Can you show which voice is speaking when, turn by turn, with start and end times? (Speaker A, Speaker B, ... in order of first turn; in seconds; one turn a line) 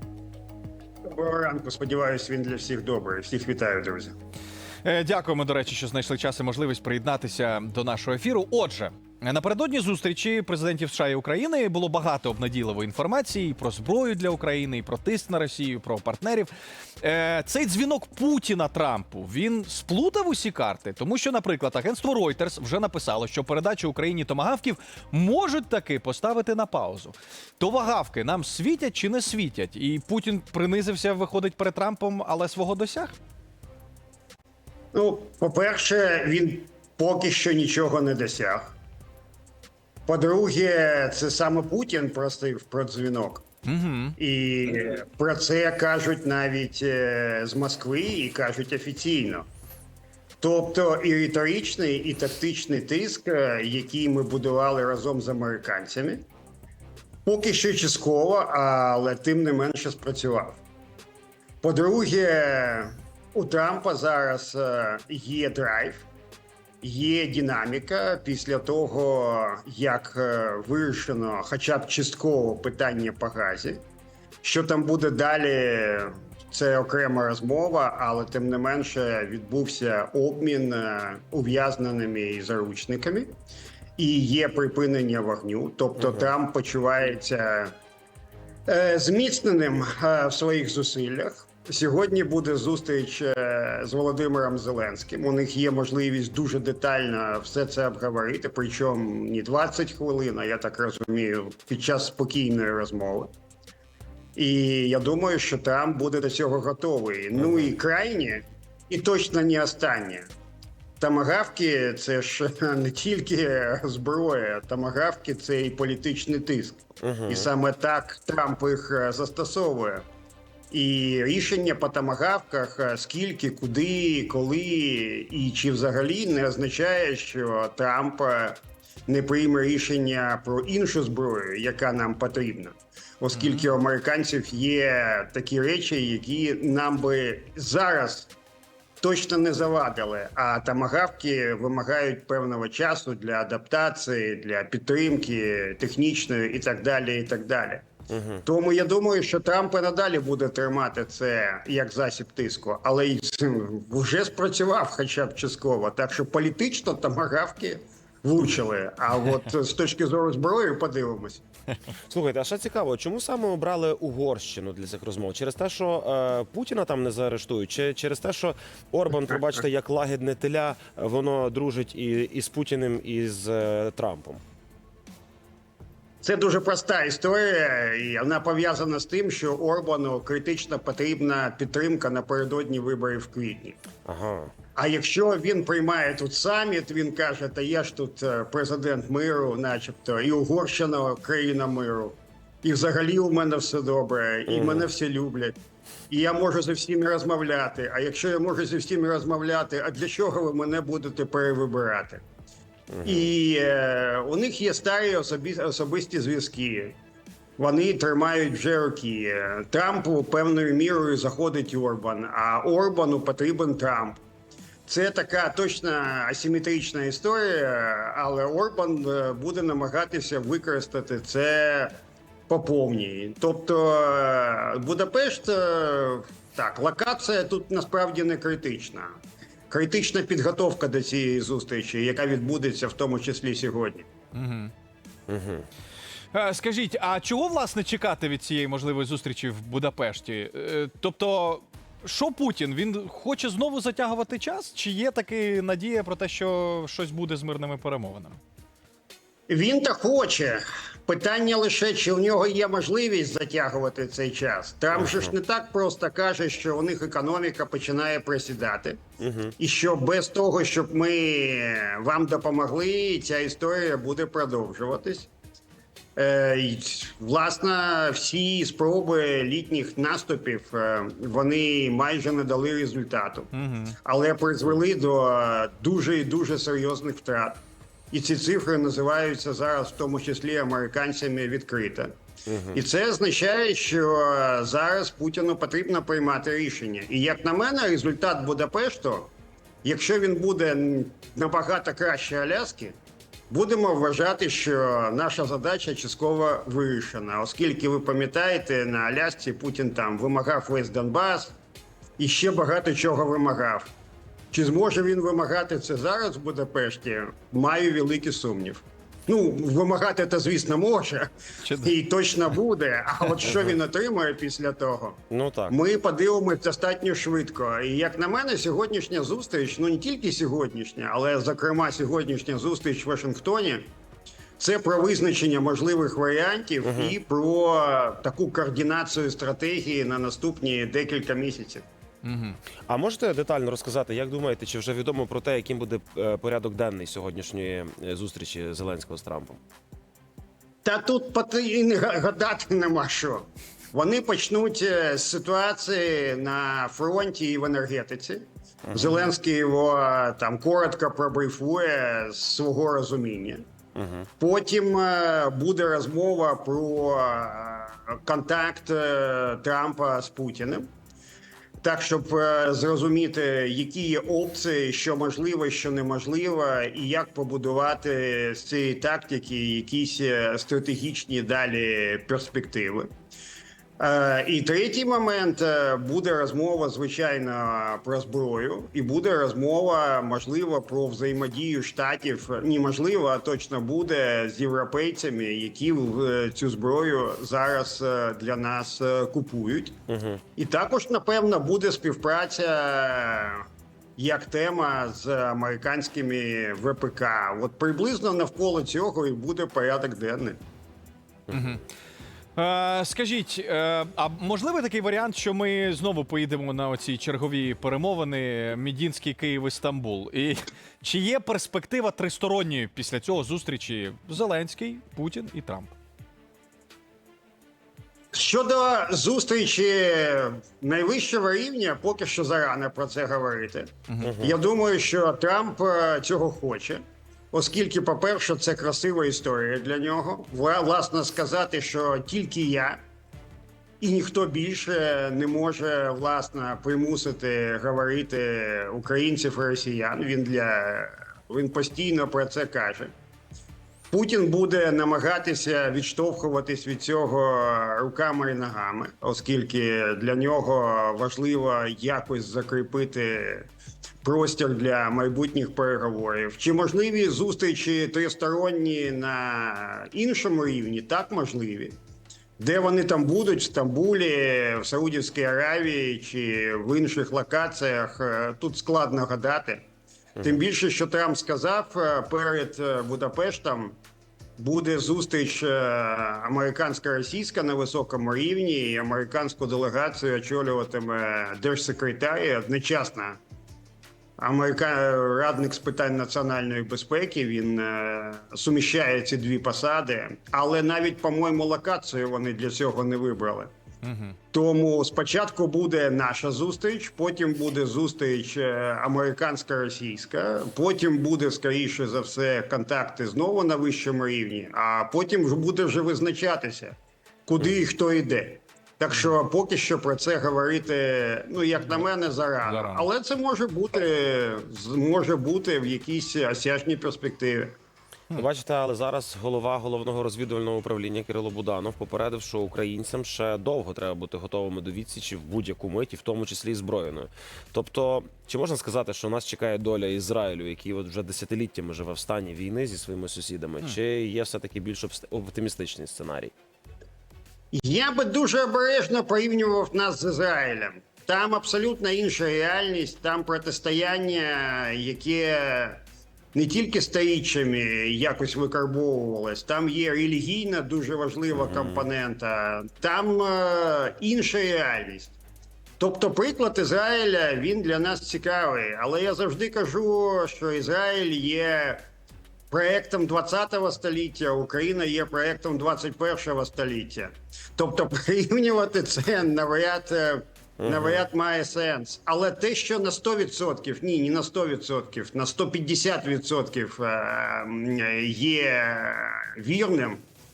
Speaker A: 1.1-4.1
Speaker B: 4.8-33.1
Speaker A: 34.9-38.7
Speaker A: 40.0-43.4
Speaker B: 43.6-44.1
Speaker A: 44.2-49.5
Speaker A: 50.4-56.2
Speaker A: 57.2-60.6
Speaker A: 61.6-66.0
Speaker A: 66.8-73.8
Speaker A: 74.4-83.3
Speaker A: 84.0-87.7
Speaker A: 88.7-103.3
Speaker A: 104.3-110.3
Speaker C: 107.4-107.7
Speaker A: 111.0-120.0
Speaker C: 117.0-117.5
Speaker A: 120.7-138.3
Speaker B: 133.3-133.7
Speaker A: 139.0-147.8
Speaker C: 148.1-148.4
Speaker A: 148.4-161.4
Speaker C: 162.1-174.4
Speaker A: 176.2-183.8
Speaker C: 184.0-184.5
Speaker A: 184.8-195.6
Speaker C: 194.5-194.9
Speaker A: 196.1-202.2
Speaker C: 202.9-203.3
Speaker A: 203.0-206.9
Speaker A: 207.6-214.2
Speaker A: 214.8-221.9
Speaker A: 222.5-229.1
Speaker A: 229.7-234.1
Speaker B: 234.3-234.7
Speaker C: 235.3-235.7
Speaker B: 236.3-248.4
Speaker A: 249.5-259.0
Speaker C: 254.9-255.3
Speaker C: 259.2-259.5
Speaker A: 259.6-265.3
Speaker A: 266.1-273.5
Speaker B: 273.5-273.9
Speaker A: 274.0-282.1
Speaker C: 282.5-282.8
Speaker A: 282.7-289.3
Speaker A: 289.8-292.9
Speaker A: 293.5-301.5
Speaker A: 302.2-303.9
Speaker A: 304.5-323.8
Speaker B: 311.6-311.9
Speaker C: 315.3-315.8
Speaker A: 324.6-331.8
Speaker C: 326.8-327.1
Speaker B: 332.2-332.6
Speaker C: 332.9-339.6
Speaker A: 340.8-353.6
Speaker C: 348.9-349.1
Speaker C: 353.9-354.3
Speaker A: 354.4-360.9
Speaker A: 361.8-373.1
Speaker A: 374.0-390.0
Speaker C: 390.1-390.4
Speaker A: 390.6-393.6
Speaker A: 394.2-400.6
Speaker C: 401.5-401.8
Speaker B: 401.5-401.8
Speaker B: 402.6-415.9
Speaker A: 418.3-433.0
Speaker C: 424.2-424.6
Speaker A: 434.0-443.1
Speaker A: 444.1-453.7
Speaker A: 454.2-462.0
Speaker A: 462.6-469.8
Speaker A: 470.4-473.9
Speaker A: 474.6-483.4
Speaker A: 484.4-493.7
Speaker B: 494.0-494.4
Speaker A: 494.5-506.9
Speaker A: 507.5-517.7
Speaker B: 512.6-513.1
Speaker C: 518.3-536.5
Speaker A: 537.7-546.0
Speaker A: 546.5-555.4
Speaker C: 551.5-552.0
Speaker A: 556.0-562.0
Speaker A: 562.7-580.2
Speaker C: 570.8-571.2